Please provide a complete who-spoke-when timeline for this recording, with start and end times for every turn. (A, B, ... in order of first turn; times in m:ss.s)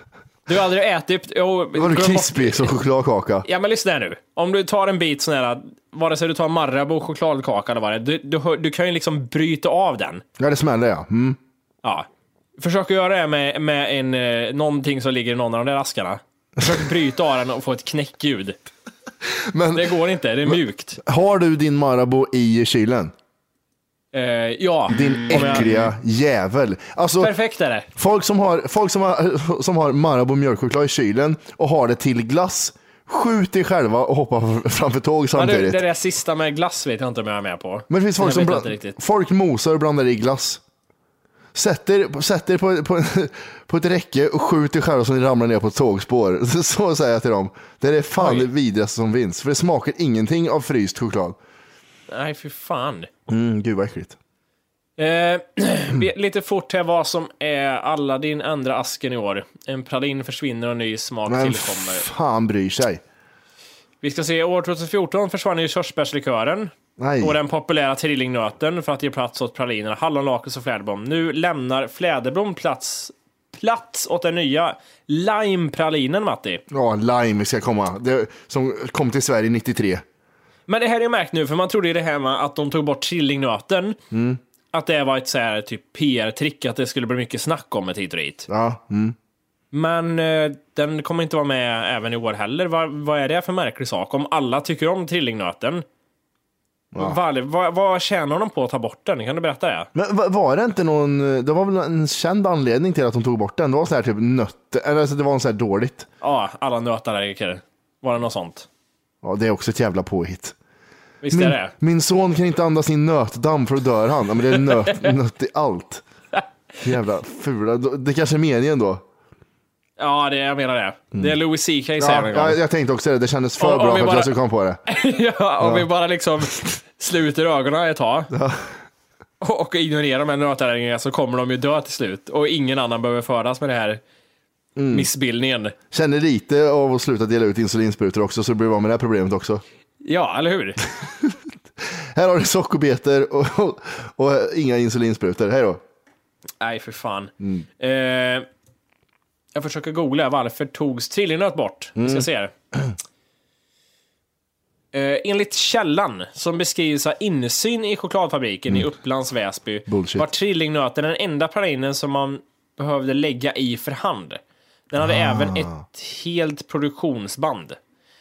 0:00.4-0:02.7 A
0:01.7-0:03.5 B
0:03.4-0:10.2 A
0:10.4-0:11.4 B
0:12.6-0:18.6 A
0:19.3-0:19.9 B
0:19.7-0:21.0 A
0:20.5-0:23.1 B
0:24.1-0:25.9 A
0:24.9-0:27.3 B
0:27.2-0:27.9 A
0:28.0-0:35.8 B
0:35.3-0:39.0 A
0:37.9-0:40.6 B
0:41.5-0:51.4 B
0:48.2-0:48.5 A
0:52.1-0:53.1 A
0:53.3-0:54.2 B
0:55.0-1:02.1 A
1:01.3-1:03.0 B
1:04.0-1:16.6 A
1:07.0-1:07.4 B
1:16.7-1:20.0 B
1:20.7-1:24.0 A
1:24.1-1:24.4 B
1:24.7-1:28.4 A
1:28.5-1:29.2 B
1:29.7-1:35.8 A
1:36.9-1:39.9 A
1:39.9-1:46.1 B
1:46.2-1:48.7 A
1:49.2-1:50.5 B
1:51.2-1:51.7 A
1:51.3-1:56.0 B
1:54.7-1:55.1 A
1:56.8-1:59.0 B
2:00.0-2:02.6 A
2:02.0-2:04.8 B
2:03.6-2:08.3 A
2:08.3-2:08.7 B
2:09.4-2:14.0 A
2:14.8-2:15.1 B
2:14.9-2:15.7 A
2:15.9-2:19.6 B
2:20.0-2:20.8 A
2:21.0-2:21.4 B
2:22.1-2:25.8 B
2:26.6-2:28.4 A
2:27.4-2:27.6 B
2:29.5-2:32.5 A
2:32.0-2:32.9 B
2:34.9-2:47.8 A
2:39.9-2:40.3 B
2:45.0-2:45.8 B